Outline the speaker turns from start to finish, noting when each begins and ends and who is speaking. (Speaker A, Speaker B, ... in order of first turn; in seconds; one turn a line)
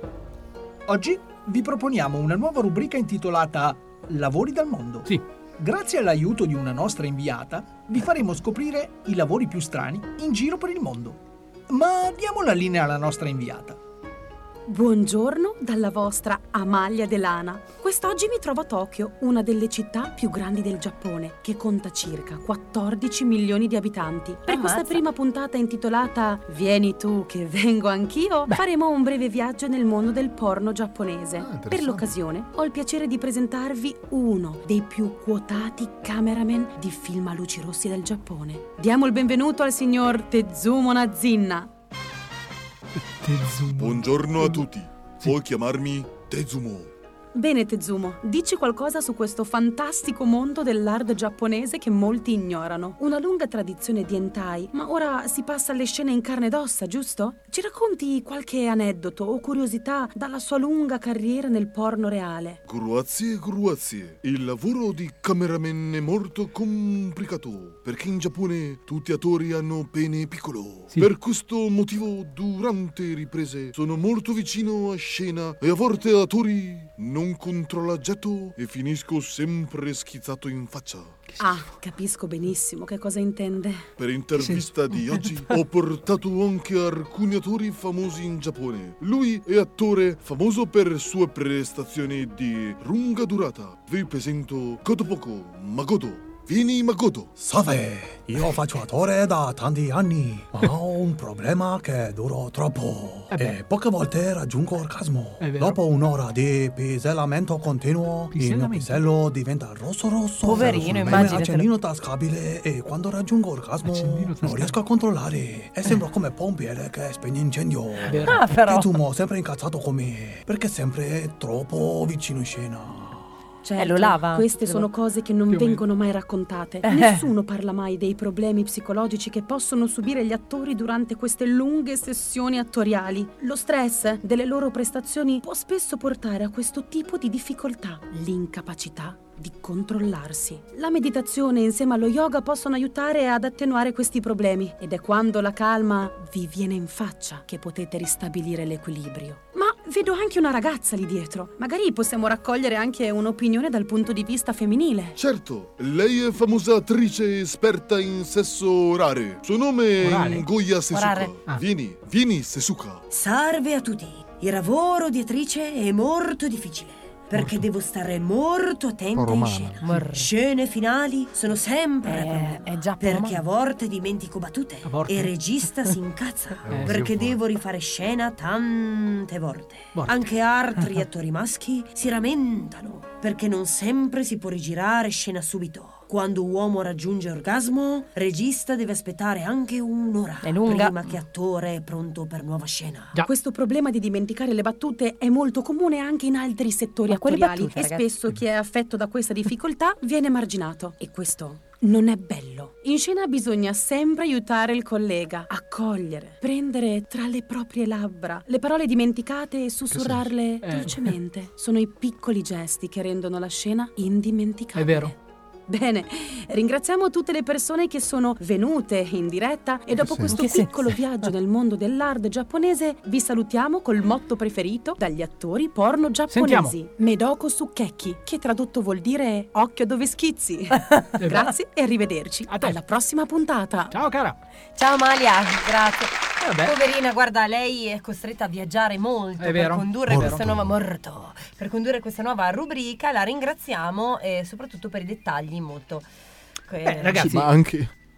Speaker A: 0.9-13.8
Speaker B: 14.7-41.7
Speaker C: 24.5-25.0
Speaker D: 31.4-32.1
Speaker A: 43.0-44.6
Speaker E: 43.8-46.9
Speaker B: 47.3-62.6
Speaker E: 62.6-81.2
Speaker B: 81.4-83.8
Speaker E: 84.0-97.3
Speaker A: 84.4-84.7
Speaker F: 97.4-123.3
Speaker A: 103.3-103.6
Speaker A: 105.4-105.8
Speaker A: 108.3-109.1
Speaker C: 110.4-111.7
Speaker D: 110.5-111.5
Speaker A: 113.8-114.8
Speaker A: 118.0-118.4
Speaker C: 118.2-119.0
Speaker B: 123.6-155.2
Speaker C: 123.8-124.9
Speaker A: 125.5-125.8
Speaker C: 126.8-127.3
Speaker E: 155.2-163.0
Speaker A: 160.0-160.5
Speaker C: 160.9-161.3
Speaker G: 163.1-193.2
Speaker D: 167.4-167.7
Speaker D: 169.1-169.8
Speaker C: 169.8-170.3
Speaker C: 172.1-173.4
Speaker A: 174.8-175.3
Speaker D: 176.6-177.4
Speaker A: 176.7-177.0
Speaker A: 179.9-180.3
Speaker C: 190.4-191.2
Speaker B: 193.2-215.1
Speaker C: 197.1-198.1
Speaker D: 209.9-210.3
Speaker A: 210.6-211.1
Speaker A: 214.8-215.1
Speaker B: 215.7-233.9
Speaker D: 220.0-220.4
Speaker C: 220.3-220.9
Speaker A: 226.3-226.8
Speaker A: 232.5-232.8
Speaker A: 233.9-234.4
Speaker C: 234.8-246.1
Speaker A: 236.4-236.8
Speaker A: 239.4-240.4
Speaker D: 240.1-240.8
Speaker C: 246.7-247.3
Speaker A: 246.8-247.5
Speaker D: 247.2-247.9